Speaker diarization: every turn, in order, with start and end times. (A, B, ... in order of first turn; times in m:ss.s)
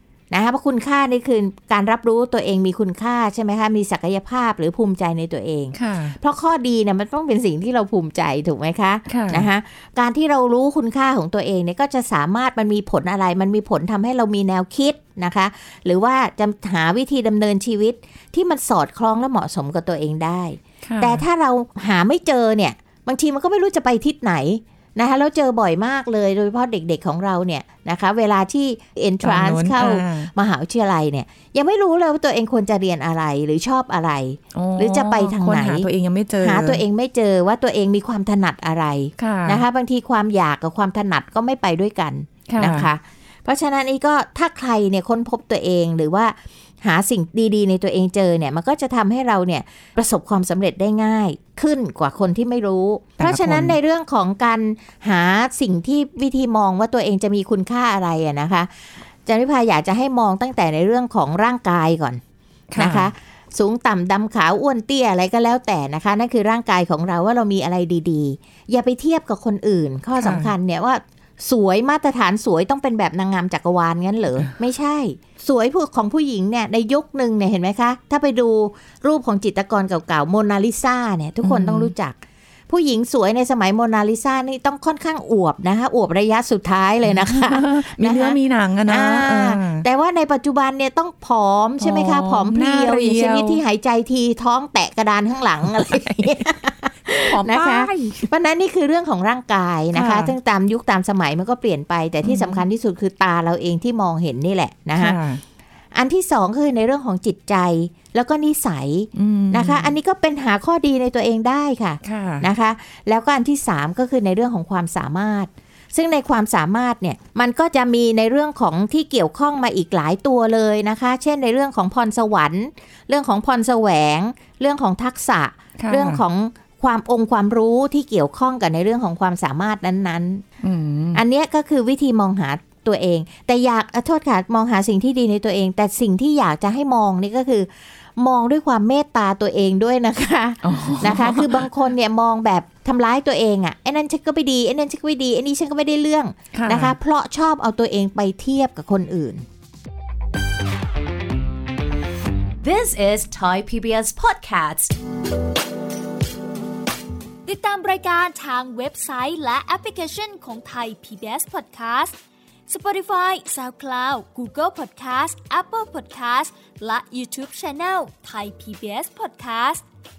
0:00.3-0:35.9 A
0:05.7-0:06.2 B
0:09.1-0:09.5 B
0:20.8-0:21.2 B
0:29.2-0:30.3 B
0:34.5-0:36.8 B
0:36.4-0:58.7 A
0:39.2-0:39.6 B
0:42.5-0:42.9 B
0:53.2-0:53.8 B
0:59.2-1:02.2 A
1:02.7-1:03.1 B
1:02.8-1:22.2 A
1:10.2-1:10.5 B
1:21.4-1:21.9 B
1:22.7-1:45.2 A
1:27.0-1:29.8 B
1:31.8-1:33.6 B
1:35.6-1:36.2 B
1:37.2-1:38.3 B
1:39.9-1:40.3 B
1:42.2-1:42.6 B
1:45.0-1:45.4 B
1:45.9-2:10.4 A
1:49.1-1:49.9 B
1:52.0-1:52.5 B
2:05.8-2:06.2 B
2:10.6-2:11.2 B
2:11.1-2:29.4 A
2:20.6-2:21.7 B
2:26.5-2:26.9 B
2:32.6-2:34.9 C
2:37.4-2:42.2 D
2:42.7-2:49.8 D